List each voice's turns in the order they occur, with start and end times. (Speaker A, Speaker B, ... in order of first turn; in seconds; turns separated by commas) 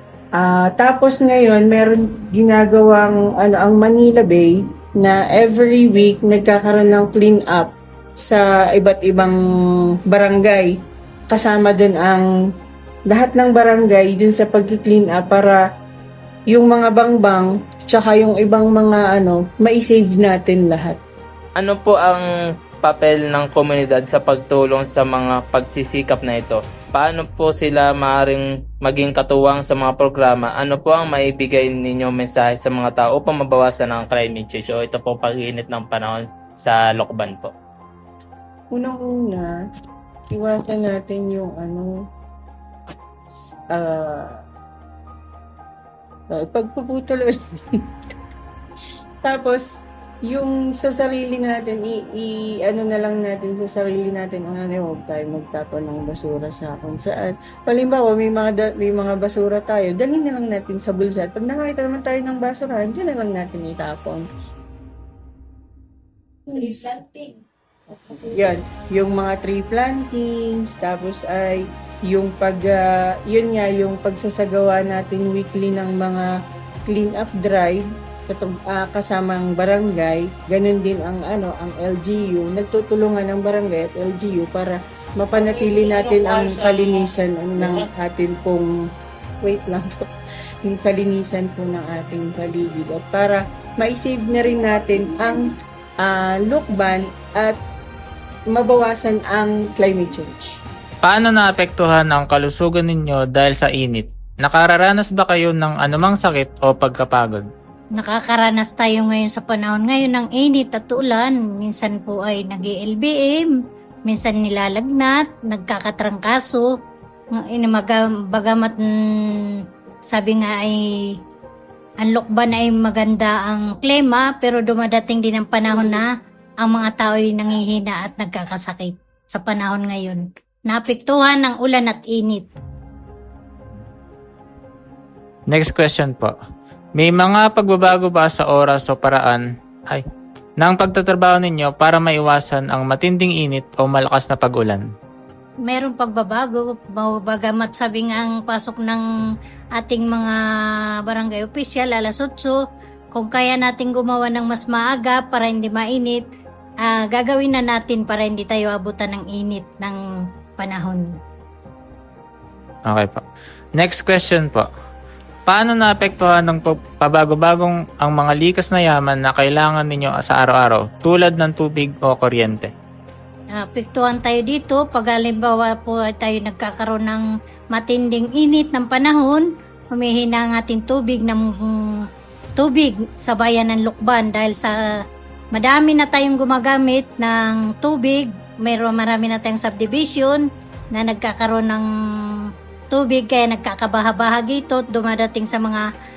Speaker A: 0.4-9.4, Speaker A: 10.1-10.8, Speaker A: 11.3-12.3, Speaker A: 13.1-15.6, Speaker A: 16.5-21.0, Speaker B: 21.6-22.3, Speaker B: 22.8-37.5, Speaker A: 38.7-39.6, Speaker A: 40.3-42.1, Speaker A: 43.7-44.4, Speaker A: 46.3-47.8, Speaker A: 49.2-64.3, Speaker A: 68.2-76.3, Speaker A: 76.9-88.7, Speaker A: 89.4-90.1, Speaker A: 90.6-95.5, Speaker A: 96.0-97.6, Speaker A: 98.5-100.6, Speaker C: 101.0-107.5, Speaker D: 108.0-113.6, Speaker D: 114.1-116.7, Speaker D: 117.4-118.8, Speaker D: 120.1-120.8, Speaker D: 122.0-126.1, Speaker D: 126.6-132.4, Speaker C: 135.5-136.3, Speaker C: 137.0-140.0, Speaker C: 140.6-144.8, Speaker D: 145.7-149.0, Speaker D: 149.8-150.4, Speaker D: 151.1-152.6, Speaker D: 153.1-156.2, Speaker D: 156.8-160.0, Speaker D: 160.6-161.2, Speaker C: 162.9-163.2, Speaker C: 163.8-164.7, Speaker C: 165.5-172.7, Speaker D: 173.6-182.0, Speaker D: 182.6-184.8, Speaker D: 185.5-191.8, Speaker D: 192.9-195.8